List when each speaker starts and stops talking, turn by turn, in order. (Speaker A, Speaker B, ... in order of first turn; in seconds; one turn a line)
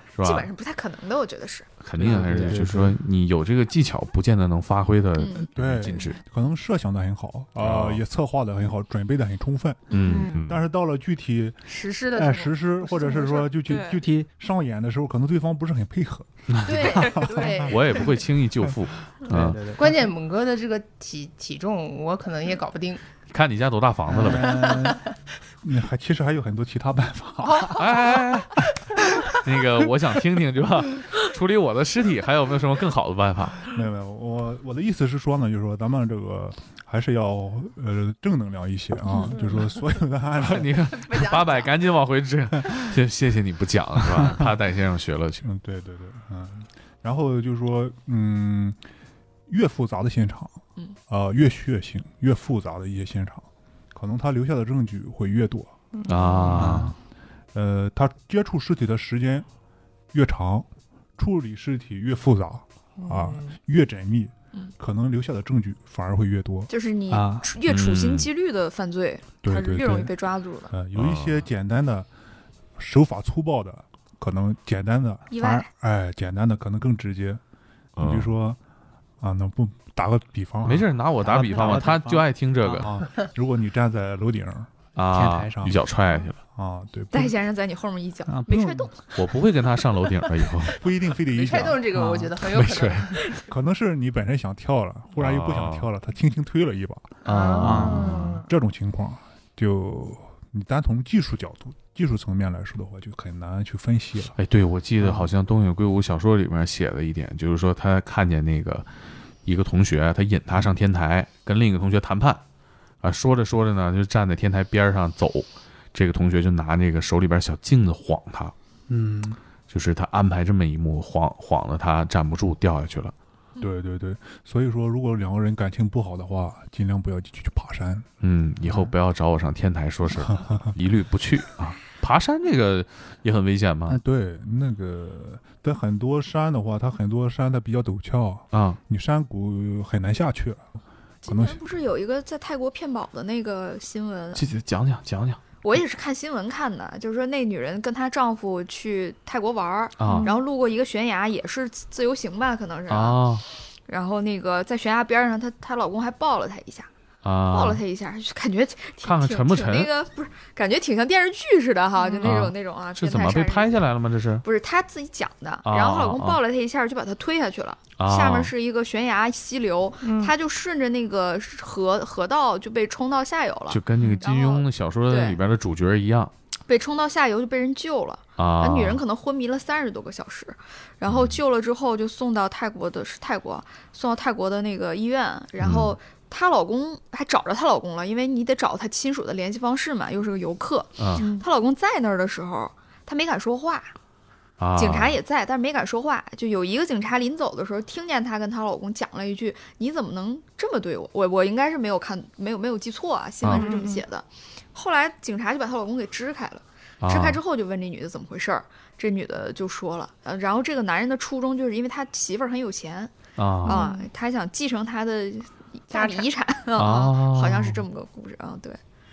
Speaker A: 0.2-0.5
Speaker B: 0.2-1.7
Speaker A: 1.8-6.2
Speaker C: 2.0-3.0
Speaker B: 5.2-5.5
Speaker D: 5.5-9.9
Speaker A: 7.6-8.0
Speaker B: 9.9-10.3
Speaker A: 9.9-10.6
Speaker E: 10.0-10.4
Speaker D: 10.5-11.6
Speaker E: 11.7-13.5
Speaker C: 12.2-12.5
Speaker D: 12.3-17.7
Speaker C: 13.7-14.3
Speaker A: 16.5-19.6
Speaker E: 16.6-18.2
Speaker C: 19.3-20.0
Speaker E: 19.8-23.0
Speaker A: 23.3-24.7
Speaker C: 24.1-25.0
Speaker E: 24.5-25.0
Speaker D: 25.6-27.8
Speaker E: 27.4-28.2
Speaker A: 27.8-28.6
Speaker E: 29.0-29.3
Speaker A: 29.4-33.6
Speaker D: 33.7-40.8
Speaker E: 39.3-39.6
Speaker A: 40.4-45.4
Speaker E: 40.9-41.7
Speaker D: 45.4-48.8
Speaker D: 49.5-55.7
Speaker E: 56.0-56.6
Speaker A: 56.1-57.0
Speaker C: 56.5-56.9
Speaker D: 57.5-59.5
Speaker D: 60.1-66.7
Speaker E: 63.0-63.5
Speaker B: 66.7-70.7
Speaker C: 67.1-67.5
Speaker A: 67.7-68.3
Speaker D: 69.4-70.1
Speaker D: 70.7-72.1
Speaker A: 71.0-71.4
Speaker D: 72.8-77.4
Speaker B: 75.3-75.7
Speaker A: 78.0-78.2
Speaker D: 78.0-78.6
Speaker D: 79.2-80.9
Speaker A: 80.7-82.9
Speaker C: 81.2-82.9
Speaker D: 82.8-85.8
Speaker A: 85.0-86.4
Speaker C: 85.1-85.8
Speaker D: 86.5-87.3
Speaker B: 87.1-89.1
Speaker C: 88.3-88.8
Speaker D: 88.5-88.8
Speaker A: 89.1-90.7
Speaker D: 90.7-91.9
Speaker E: 91.3-93.4
Speaker A: 92.5-93.1
Speaker D: 93.5-97.2
Speaker A: 95.2-95.9
Speaker E: 97.2-98.5
Speaker C: 97.2-98.4
Speaker A: 97.5-98.3
Speaker D: 98.4-104.4
Speaker A: 104.4-108.9
Speaker C: 105.0-105.3
Speaker A: 109.5-112.4
Speaker A: 113.0-118.5
Speaker C: 118.9-119.4
Speaker A: 119.7-123.1
Speaker D: 123.6-128.1
Speaker A: 128.2-134.0
Speaker D: 130.1-130.7
Speaker D: 134.0-140.6
Speaker A: 138.5-138.8
Speaker B: 141.2-144.5
Speaker D: 141.2-141.6
Speaker A: 144.3-145.4
Speaker B: 145.6-153.3
Speaker A: 150.0-150.3
Speaker E: 150.0-150.4
Speaker A: 152.9-153.4
Speaker B: 153.9-156.9
Speaker A: 157.2-157.8
Speaker B: 157.5-163.9
Speaker A: 159.0-159.9
Speaker E: 162.0-162.4
Speaker A: 162.2-164.4
Speaker B: 164.4-175.4
Speaker A: 165.7-166.4
Speaker A: 168.0-168.5
Speaker E: 170.0-170.3
Speaker A: 173.7-176.3
Speaker B: 176.7-193.9
Speaker A: 178.4-179.0
Speaker A: 181.1-181.4
Speaker A: 185.6-185.9
Speaker A: 191.0-191.3
Speaker E: 191.2-191.4
Speaker A: 194.6-195.2
Speaker B: 194.8-213.1
Speaker A: 203.4-203.7
Speaker E: 203.5-204.0
Speaker A: 207.0-207.4
Speaker A: 213.4-213.8
Speaker E: 213.7-214.1
Speaker B: 213.7-218.8
Speaker E: 215.9-216.3
Speaker A: 216.8-217.8